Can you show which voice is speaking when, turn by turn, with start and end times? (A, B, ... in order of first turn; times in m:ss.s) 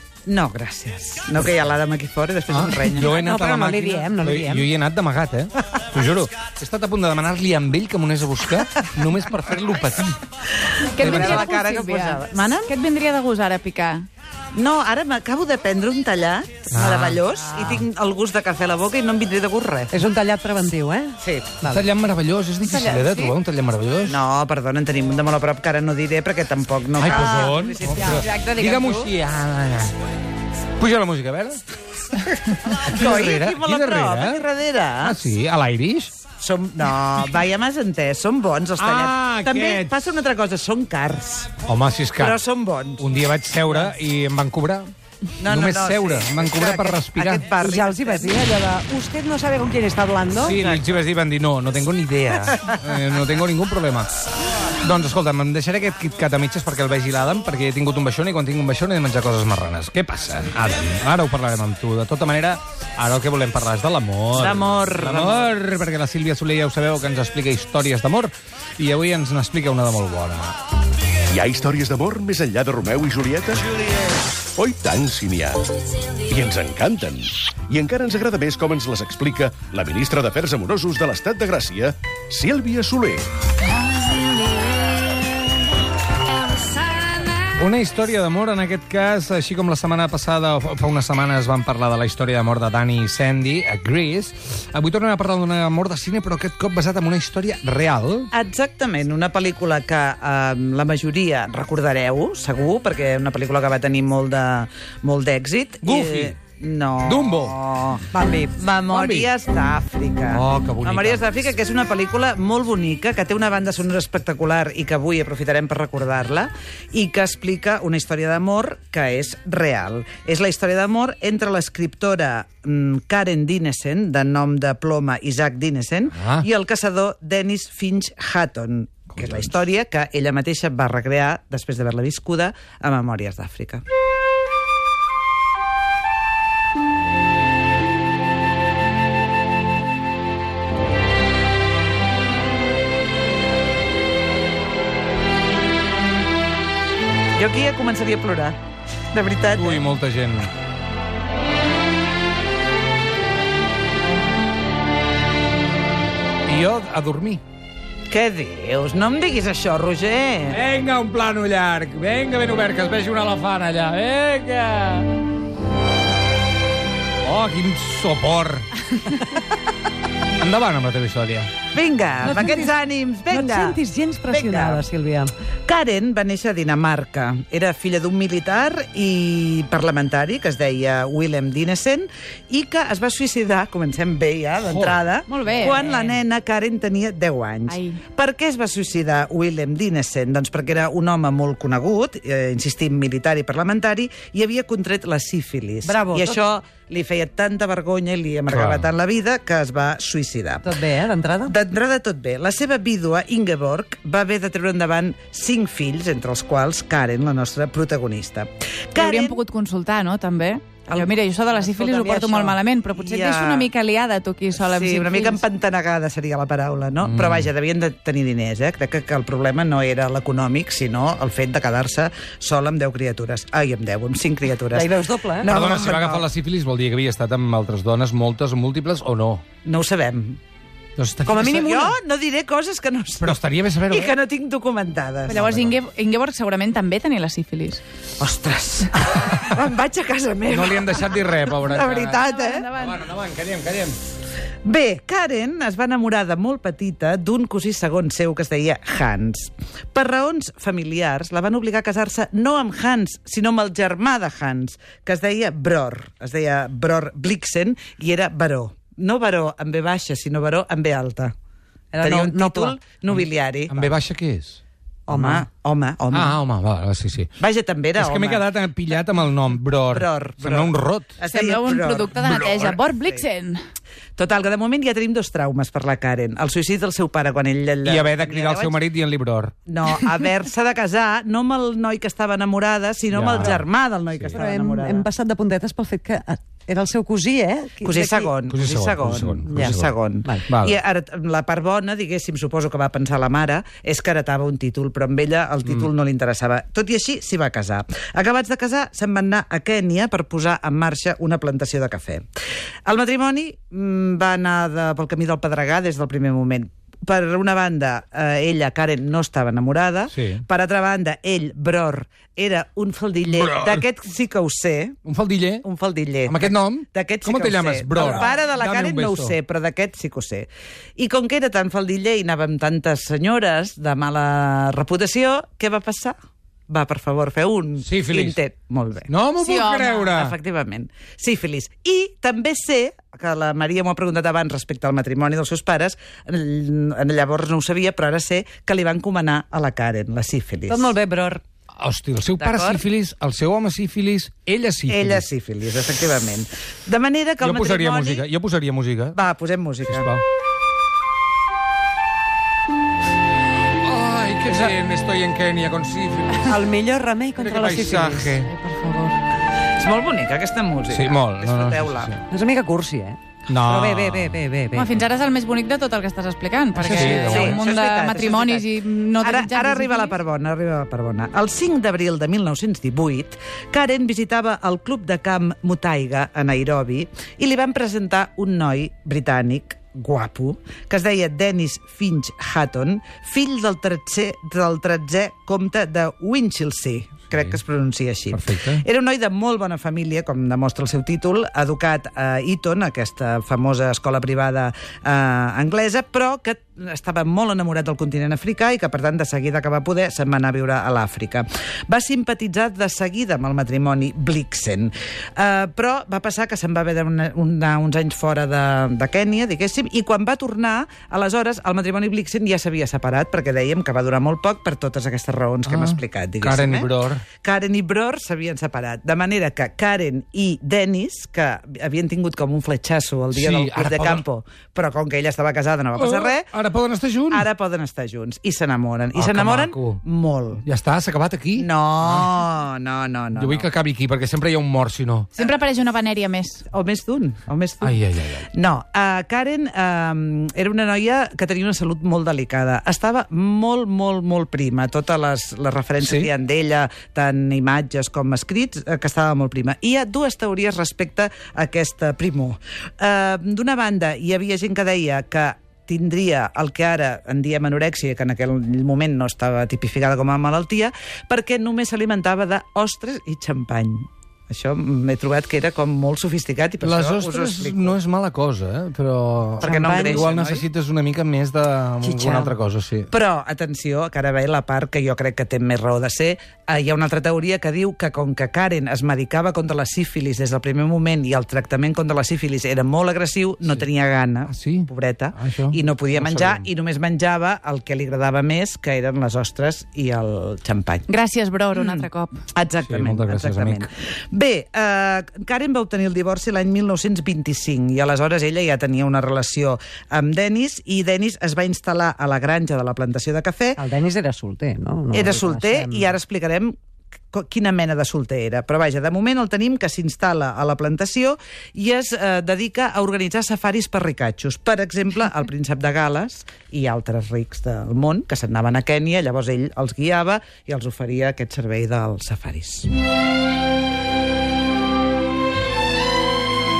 0:00.3-0:03.1 A
0:02.5-0:10.2 B
0:03.1-0:04.7 C
0:10.8-0:12.7 A
0:11.0-0:14.0 D
0:11.0-0:11.4 B
0:14.5-0:20.0 A
0:16.7-0:17.8 B
0:19.9-0:21.8 C
0:21.2-0:21.5 A
0:21.7-0:24.2 B
0:22.6-0:23.3 D
0:24.0-0:28.3 A
0:27.0-0:29.9 B
0:27.1-0:29.1 D
0:30.8-0:31.6 B
0:32.2-0:34.4 B
0:32.7-0:35.2 A
0:35.0-0:36.1 B
0:36.4-0:41.6 A
0:38.8-0:39.9 B
0:41.6-0:42.4 B
0:42.2-0:43.0 A
0:43.0-0:44.9 B
0:45.4-0:48.4 A
0:45.4-0:47.5 B
0:47.5-0:50.6 C
0:50.4-0:50.9 A
0:50.4-0:54.1 B
0:54.8-1:10.6 B
1:04.3-1:05.5 A
1:11.3-1:13.6 E
1:14.6-1:15.6 E
1:16.2-1:23.3 E
1:27.6-1:38.3 B
1:38.3-2:13.8 A
1:45.8-1:46.3 B
1:47.0-1:47.6 B
1:48.1-1:48.6 C
1:48.8-1:49.3 B
1:50.3-1:51.2 B
2:06.1-2:06.4 B
2:09.1-2:09.5 B
2:27.4-2:28.6 A
2:29.1-2:29.8 A
2:29.5-2:30.5 B
2:36.5-2:37.4 B
2:38.1-2:40.6 A
2:40.5-2:45.1 B
2:47.2-2:49.2 B
2:50.4-2:51.5 B
2:51.7-2:53.8 A
2:52.2-2:52.8 C
2:53.3-2:55.3 C
2:54.3-2:54.8 A
2:55.7-3:20.7 A
3:04.6-3:05.0 B
3:05.3-3:06.0 D
3:05.8-3:06.1 C
3:07.7-3:08.0 D
3:15.8-3:16.4 C
3:18.5-3:18.9 B
3:20.6-3:21.5 C
3:21.4-3:29.4 A
3:29.0-3:35.4 D
3:30.9-3:32.6 C
3:32.9-3:33.7 A
3:34.6-3:44.9 A
3:37.0-3:37.5 B
3:44.7-3:45.5 C
3:45.4-3:46.2 A
3:45.4-3:49.4 B
3:49.6-3:50.4 A
3:51.0-3:51.6 B
3:51.3-3:52.0 C
3:51.3-3:55.7 A
3:53.2-3:54.1 B
3:55.3-3:57.8 D
3:58.2-4:02.6 A
4:00.5-4:02.2 B
4:02.1-4:03.0 D
4:02.8-4:04.0 B
4:04.6-4:21.3 A
4:21.9-4:22.8 C
4:22.0-4:23.9 A
4:23.1-4:24.6 B
4:25.1-4:25.5 C
4:25.1-4:26.4 A
4:26.1-4:27.3 B
4:27.4-4:28.5 A
4:27.9-4:31.2 B
4:29.9-4:33.2 A
4:31.3-4:33.6 D
4:34.2-4:38.8 A
4:37.8-4:39.5 B
4:39.7-4:45.1 A
4:43.1-4:44.4 B
4:44.3-4:48.4 C
4:47.8-5:02.2 A
4:48.4-4:49.9 B
4:49.5-4:50.4 C
4:50.5-4:50.8 B
5:02.9-5:15.0 A
5:10.1-5:10.4 B
5:13.3-5:13.8 B
5:15.0-5:15.6 B
5:15.6-5:26.2 A
5:16.2-5:19.4 B
5:26.7-5:29.1 A
5:27.8-5:28.4 B
5:29.1-5:30.3 B
5:29.4-5:30.2 D
5:30.2-5:40.9 A
5:40.7-5:41.4 C
5:41.8-5:45.2 B
5:42.4-5:42.8 A
5:44.9-5:48.2 A
5:47.4-5:49.2 B
5:49.1-5:50.1 A
5:49.9-5:50.2 B
5:53.8-5:56.6 B
5:56.4-5:59.2 C
5:57.4-5:58.5 B
5:58.5-5:58.8 D
5:59.8-6:02.2 A
6:00.9-6:02.2 B
6:02.3-6:04.9 C
6:03.5-6:04.4 B
6:04.7-6:10.1 D
6:06.8-6:07.6 C
6:06.8-7:06.5 A
6:06.9-6:07.4 B
6:27.3-6:27.6 B
6:28.3-6:28.8 B
6:55.7-6:57.2 B
7:03.3-7:04.2 B
7:05.9-7:07.5 B
7:07.3-7:10.6 A
7:09.2-7:10.0 B
7:10.6-7:12.3 B
7:11.6-7:13.7 A
7:13.4-7:15.3 B
7:15.4-7:16.6 D
7:16.7-7:17.9 A
7:17.8-7:18.5 B
7:18.5-7:48.0 A
7:26.0-7:26.3 B
7:46.8-7:53.1 B
7:49.6-7:50.3 C
7:49.6-7:50.7 A
7:52.0-7:52.5 C
7:53.1-8:11.1 A
8:04.5-8:06.7 B
8:11.1-8:12.4 D
8:11.7-8:23.8 A
8:12.8-8:13.8 B
8:23.8-8:26.1 C
8:25.1-8:26.8 A
8:27.3-8:42.9 A